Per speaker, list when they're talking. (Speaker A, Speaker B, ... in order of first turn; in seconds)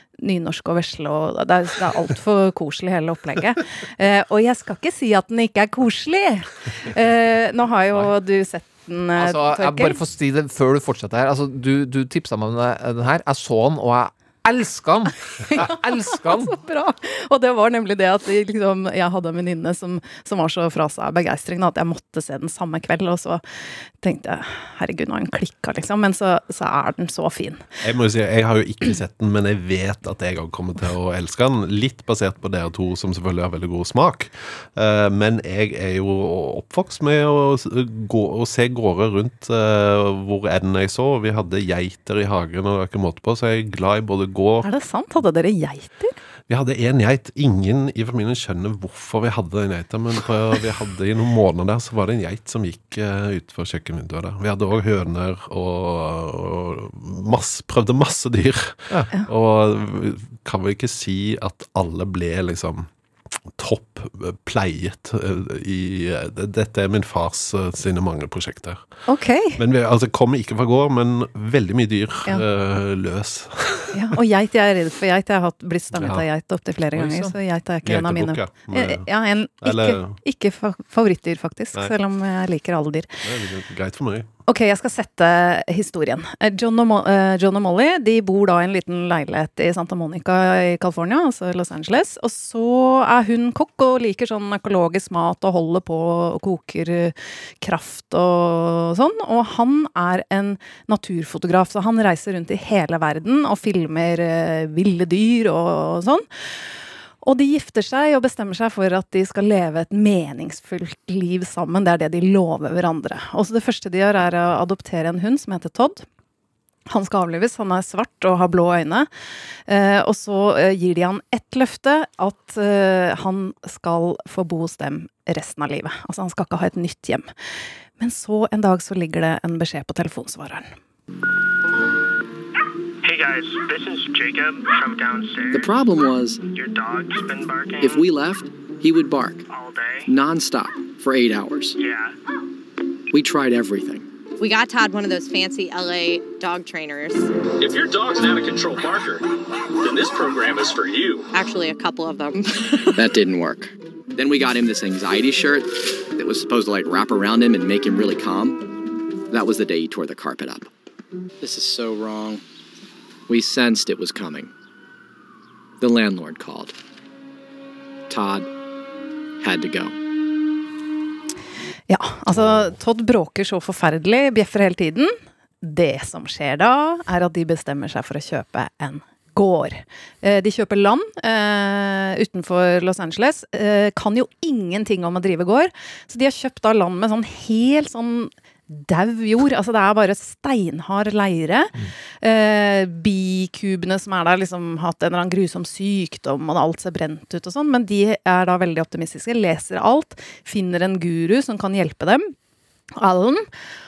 Speaker A: 0.2-10.0, 15.4-23.4, 24.0-27.6, 44.6-46.1, 69.1-69.6, 73.9-83.2, 84.5-106.2, 107.2-116.1, 116.9-119.1, 119.7-127.3, 128.0-130.7, 171.9-202.3, 203.0-203.5
Speaker B: 9.2-16.6, 77.0-77.3
Speaker C: 27.8-44.7, 46.5-62.9, 63.5-68.8, 69.6-74.1, 76.0-76.2, 77.8-79.1, 79.6-80.2, 83.2-84.3, 172.3-172.7
Speaker D: 133.0-135.7, 136.5-138.1, 139.5-140.1, 141.8-142.1
Speaker E: 135.5-136.4, 137.8-139.4, 140.1-141.8, 143.1-144.1, 152.9-158.7, 159.3-160.7, 161.4-162.4, 163.3-164.5, 165.8-166.7, 168.1-168.5, 169.4-169.9
Speaker F: 144.4-147.3, 151.3-153.0
Speaker G: 147.6-149.3, 149.8-151.3